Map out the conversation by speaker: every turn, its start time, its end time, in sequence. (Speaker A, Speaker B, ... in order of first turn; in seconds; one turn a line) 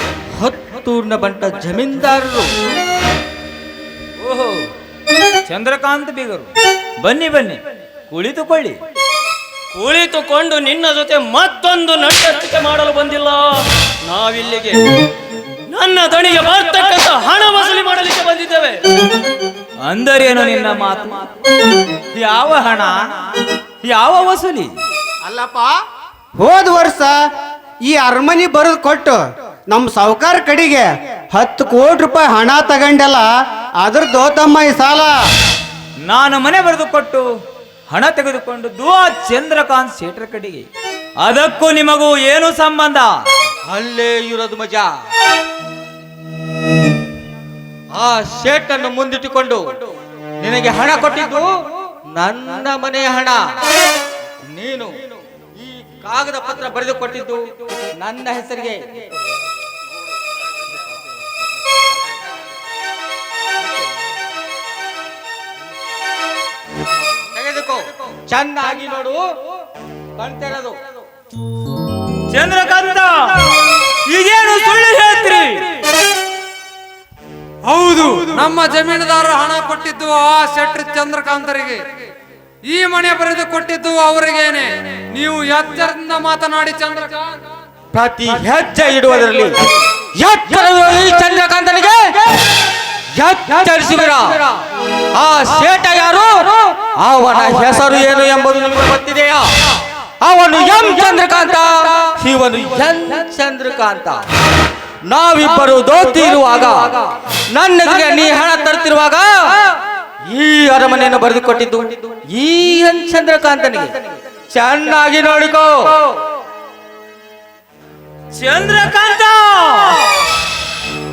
Speaker A: 0.4-2.5
Speaker B: 4.2-4.6
Speaker B: 5.5-6.5
Speaker B: 7.0-8.8
Speaker C: 9.7-13.4
Speaker C: 14.1-14.8
Speaker C: 15.7-18.8
Speaker B: 19.9-21.3
Speaker B: 22.1-24.7
Speaker D: 25.3-25.7
Speaker D: 26.4-27.1
Speaker D: 27.9-29.2
Speaker D: 29.7-33.2
Speaker D: 33.8-35.1
Speaker B: 36.0-37.3
Speaker B: 37.9-40.7
Speaker B: 41.2-43.1
Speaker A: 43.7-44.9
Speaker A: 48.0-49.8
Speaker A: 50.4-51.5
Speaker A: 52.2-53.5
Speaker A: 54.4-59.0
Speaker A: 67.3-69.2
Speaker A: 70.2-70.8
Speaker B: 72.3-73.3
Speaker B: 74.0-75.6
Speaker E: 77.7-81.8
Speaker E: 82.7-87.3
Speaker A: 87.9-89.5
Speaker A: 90.2-92.1
Speaker A: 93.1-94.4
Speaker A: 95.2-99.5
Speaker A: 100.2-104.2
Speaker A: 105.1-107.0
Speaker A: 107.5-109.3
Speaker A: 110.3-113.9
Speaker A: 114.5-116.0
Speaker B: 118.3-120.0